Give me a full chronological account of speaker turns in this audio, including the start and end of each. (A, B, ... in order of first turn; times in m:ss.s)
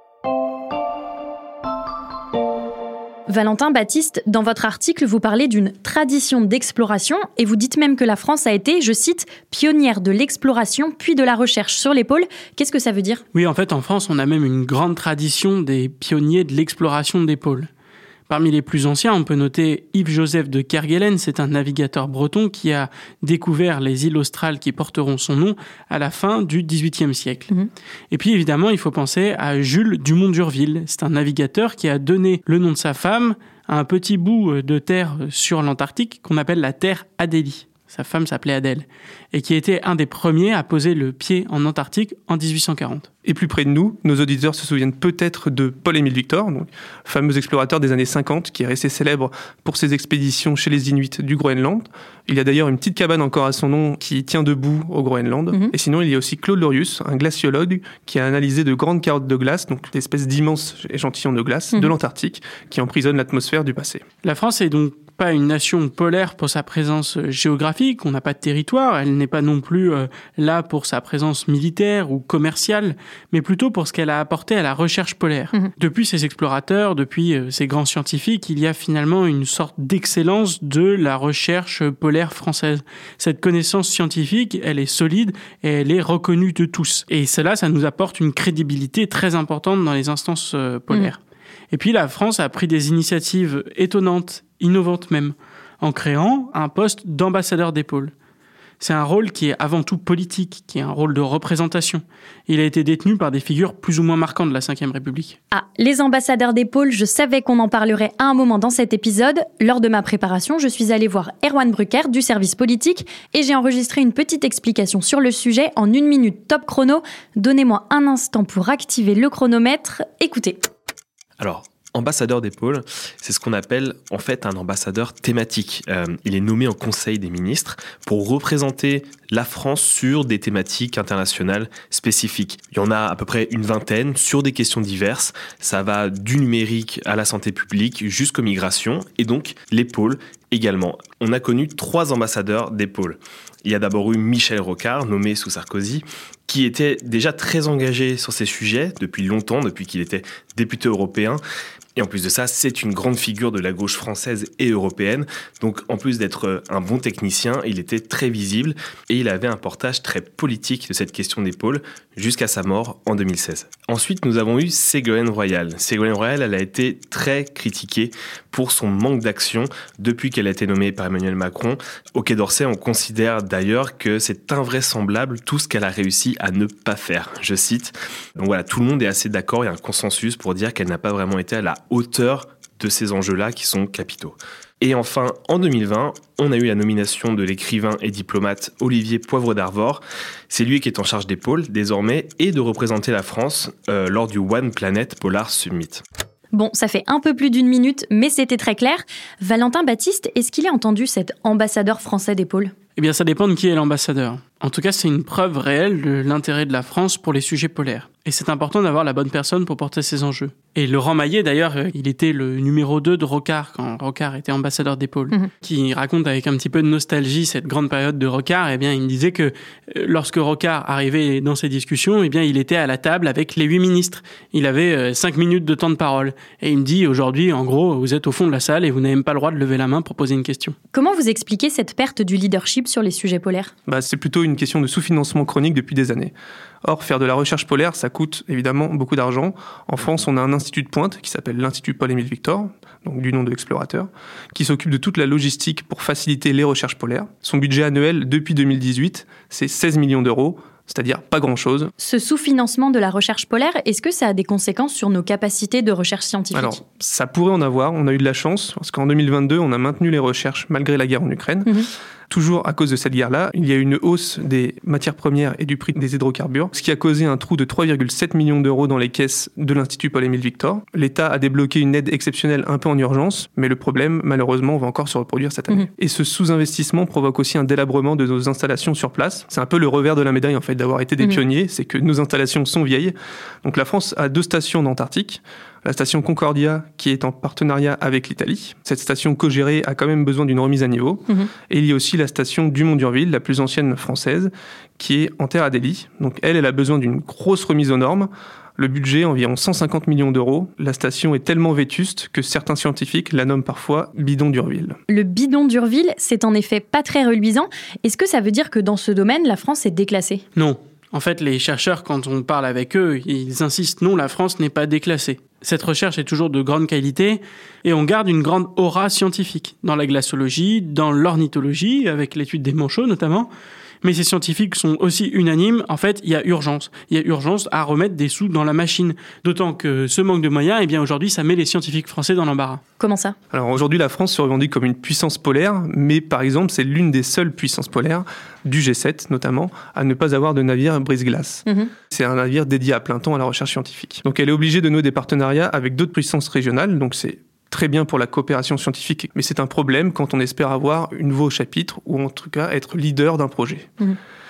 0:03.3-0:13.2 A
0:13.3-0:17.7 B
0:18.3-0:27.5 B
0:28.1-0:43.1 B
0:43.2-1:04.0 C
1:04.2-1:31.2 B
1:31.7-1:38.1 B
1:38.8-1:45.4 B
1:45.5-2:00.6 A
2:01.4-2:31.4 D
2:32.0-3:16.0 D
3:16.5-3:22.7 A
3:23.0-3:50.7 B
3:50.9-3:53.7 A
3:53.8-4:11.9 C
4:12.0-4:16.8 A
4:16.5-4:21.8 C
4:22.3-5:05.0 C
5:05.1-5:10.4 A
5:10.6-5:23.5 B
5:24.0-5:32.8 B
5:33.0-5:33.4 A
5:33.5-5:54.0 C